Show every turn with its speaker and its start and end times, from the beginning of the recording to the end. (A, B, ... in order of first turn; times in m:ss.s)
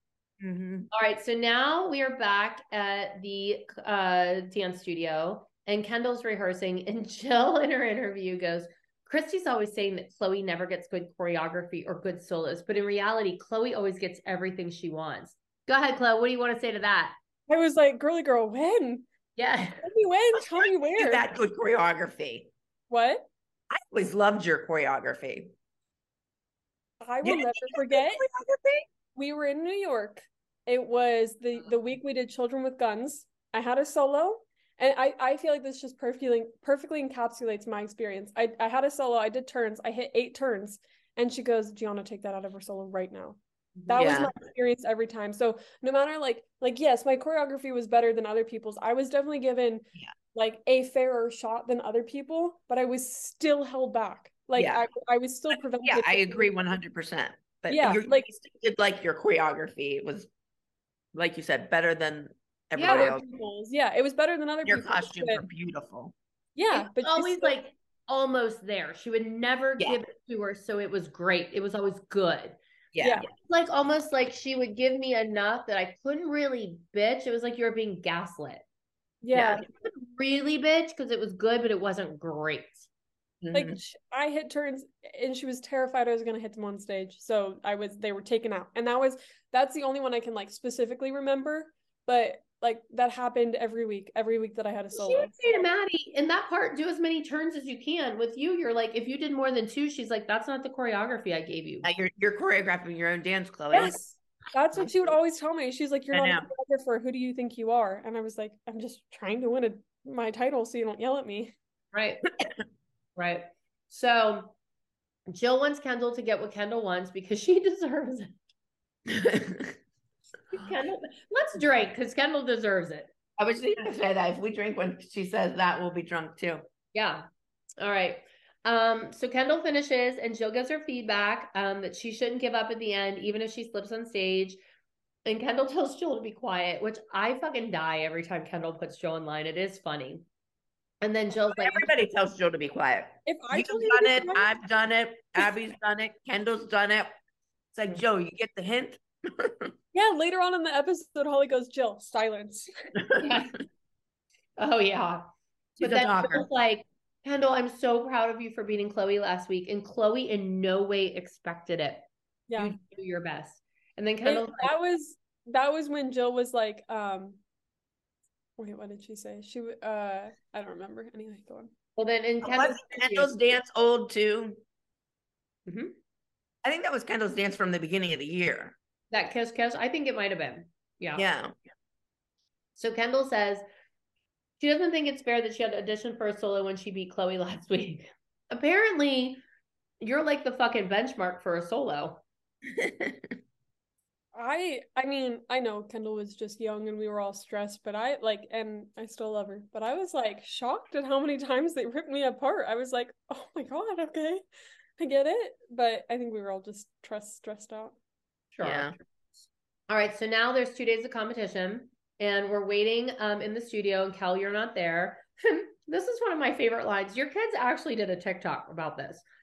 0:00.4-0:00.9 A
0:00.9-0:17.2 B
0:17.5-0:19.1 C
0:19.4-0:19.8 B
0:19.8-0:21.3 C
0:20.6-0:22.5 A
0:22.9-0:23.3 C
0:23.7-0:25.5 A
0:27.0-0:28.3 C
0:27.2-0:28.9 A
0:29.2-0:56.5 C
0:43.9-0:44.3 A
0:54.6-0:54.8 A
0:55.8-1:00.3 A
0:57.7-0:58.3 C
1:01.1-1:03.2 A
1:02.8-1:03.1 B
1:02.9-1:05.4 C
1:04.6-1:06.1 A
1:06.6-1:07.6 C
1:06.7-1:12.6 B
1:12.9-1:13.3 A
1:13.3-1:18.6 B
1:19.2-1:19.6 C
1:19.3-1:19.6 A
1:19.8-1:22.9 B
1:23.4-1:23.8 A
1:23.5-1:35.5 C
1:34.9-1:41.9 B
1:41.8-1:44.0 A
1:43.7-1:51.5 C
1:46.1-1:46.5 A
1:51.9-1:52.2 B
1:53.2-1:54.5 B
1:55.3-1:58.3 B
1:59.1-1:59.8 A
2:00.5-2:03.1 B
2:03.4-2:06.6 A
2:06.9-2:07.3 B
2:07.8-2:14.6 B
2:15.2-2:20.2 B
2:21.0-2:21.8 B
2:21.5-2:27.2 A
2:23.3-2:24.5 C
2:27.7-2:29.7 A
2:29.9-2:32.7 C
2:33.2-2:33.6 B
2:34.6-2:35.3 B
2:35.8-2:36.5 A
2:35.8-2:42.1 B
2:42.5-2:42.8 C
2:42.6-2:44.7 B
2:44.2-2:47.4 C
2:48.6-2:51.7 C
2:52.0-2:53.3 B
2:52.4-2:54.6 A
2:55.7-2:55.9 B
2:56.6-2:58.8 A
2:59.1-3:01.3 B
3:01.2-3:01.6 A
3:02.8-3:03.6 B
3:04.6-3:09.4 B
3:10.0-3:12.2 B
3:12.7-3:13.4 A
3:14.3-3:24.4 C
3:25.0-3:28.0 C
3:28.5-3:29.0 B
3:28.6-3:28.9 A
3:29.9-3:39.2 B